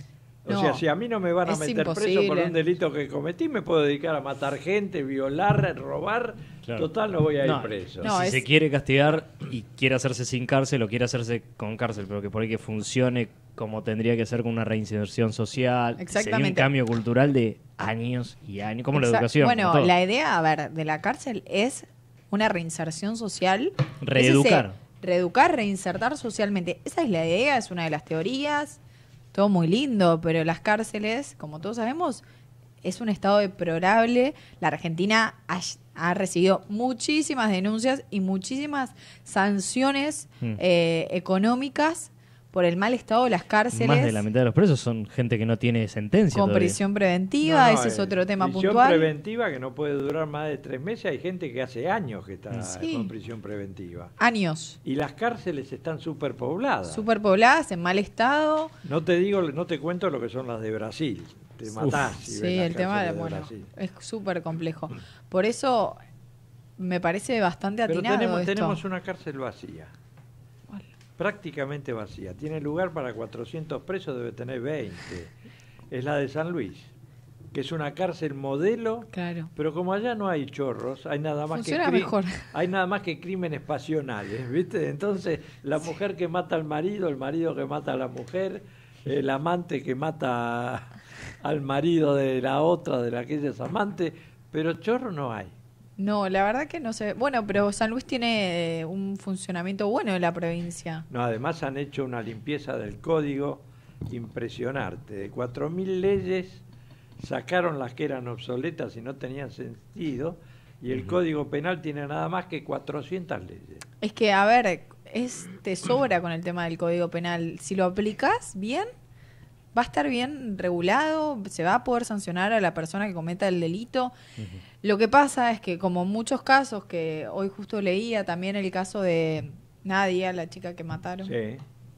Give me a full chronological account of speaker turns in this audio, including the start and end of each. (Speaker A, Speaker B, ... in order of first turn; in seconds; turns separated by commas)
Speaker A: 0.5-8.1, Speaker B: 0.5-0.8, Speaker B: 1.4-2.6, Speaker C: 7.4-19.9, Speaker B: 8.0-8.4, Speaker B: 16.0-16.7, Speaker B: 18.9-28.8, Speaker C: 24.0-24.8, Speaker B: 29.3-32.2, Speaker B: 32.8-44.2, Speaker C: 43.7-46.8, Speaker B: 46.3-49.1, Speaker A: 47.4-54.1, Speaker B: 52.7-53.1, Speaker B: 54.2-54.8, Speaker A: 54.8-57.0, Speaker B: 56.9-58.7, Speaker A: 58.8-63.7, Speaker C: 61.7-62.1, Speaker B: 62.2-66.0, Speaker B: 66.8-68.8, Speaker A: 67.9-69.9, Speaker A: 71.2-75.3, Speaker A: 75.9-76.9, Speaker A: 77.5-95.5, Speaker B: 79.1-79.5, Speaker B: 81.5-82.5, Speaker B: 96.0-101.1, Speaker A: 101.1-106.6, Speaker A: 107.2-113.8, Speaker B: 114.0-118.9, Speaker B: 119.7-124.1, Speaker B: 124.8-131.3, Speaker A: 131.2-131.6